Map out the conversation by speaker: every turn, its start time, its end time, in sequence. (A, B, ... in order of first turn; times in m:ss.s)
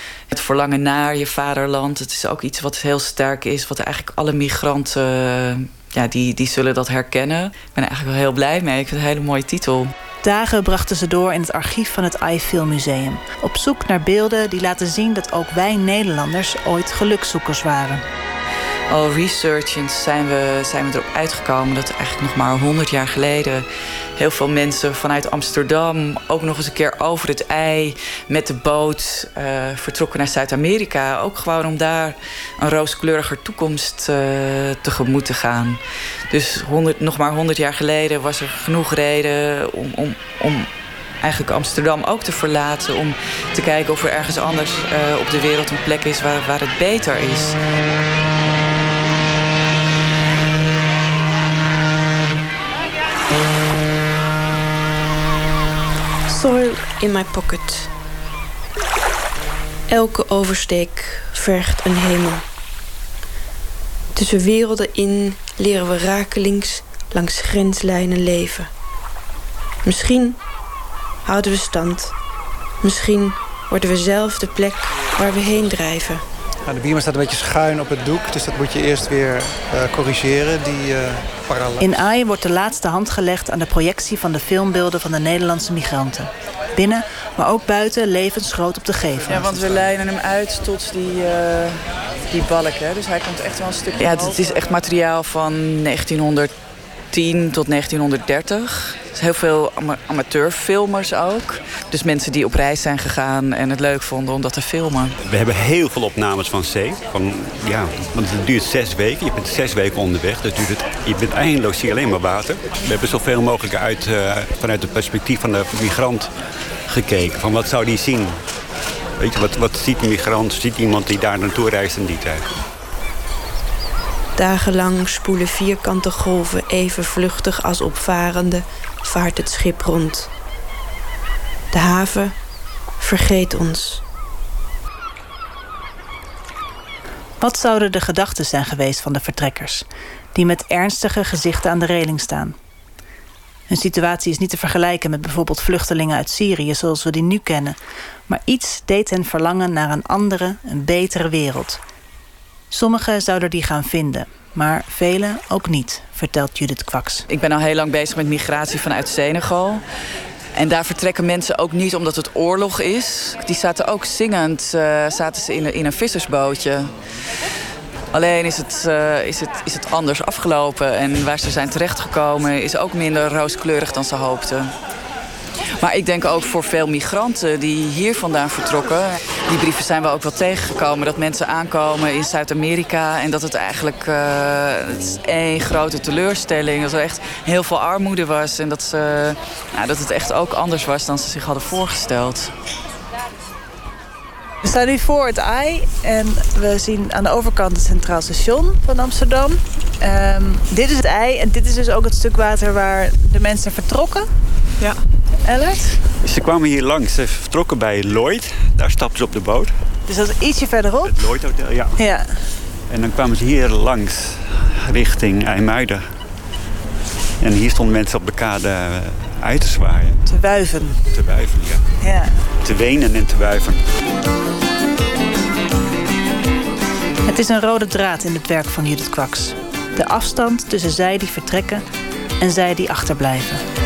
0:00.3-0:09.9 A
0:10.2-0:18.0 B
0:18.9-0:23.6 A
0:24.2-0:40.7 A
0:41.2-0:47.6 A
0:56.3-0:57.9 C
0:59.9-1:02.4 C
1:04.1-1:08.7 C
1:09.8-1:10.4 C
1:11.2-1:12.1 C
1:12.8-1:16.2 C
1:16.6-1:21.8 D
1:21.8-1:29.8 B
1:29.2-1:36.5 A
1:37.1-1:45.1 A
1:45.2-1:56.4 E
1:56.9-1:58.5 E
1:59.2-2:02.6 E
2:04.4-2:10.3 C
2:11.7-2:12.4 C
2:13.0-2:14.0 C
2:17.4-2:22.6 B
2:23.7-2:31.8 B
2:32.7-2:37.2 B
2:37.3-2:39.8 A
2:40.5-2:46.9 A
2:48.1-2:54.7 A
2:55.8-3:12.5 A
3:14.6-3:24.3 B
3:25.4-3:26.0 B
3:26.2-3:29.8 E
3:30.0-3:31.2 B
3:31.0-3:31.9 E
3:31.9-3:32.4 B
3:32.9-3:36.1 E
3:37.4-3:40.2 E
3:40.2-3:41.0 B
3:41.1-3:41.9 E
3:42.0-3:42.4 B
3:42.6-3:43.8 E
3:47.2-3:51.8 B
3:52.4-3:53.6 B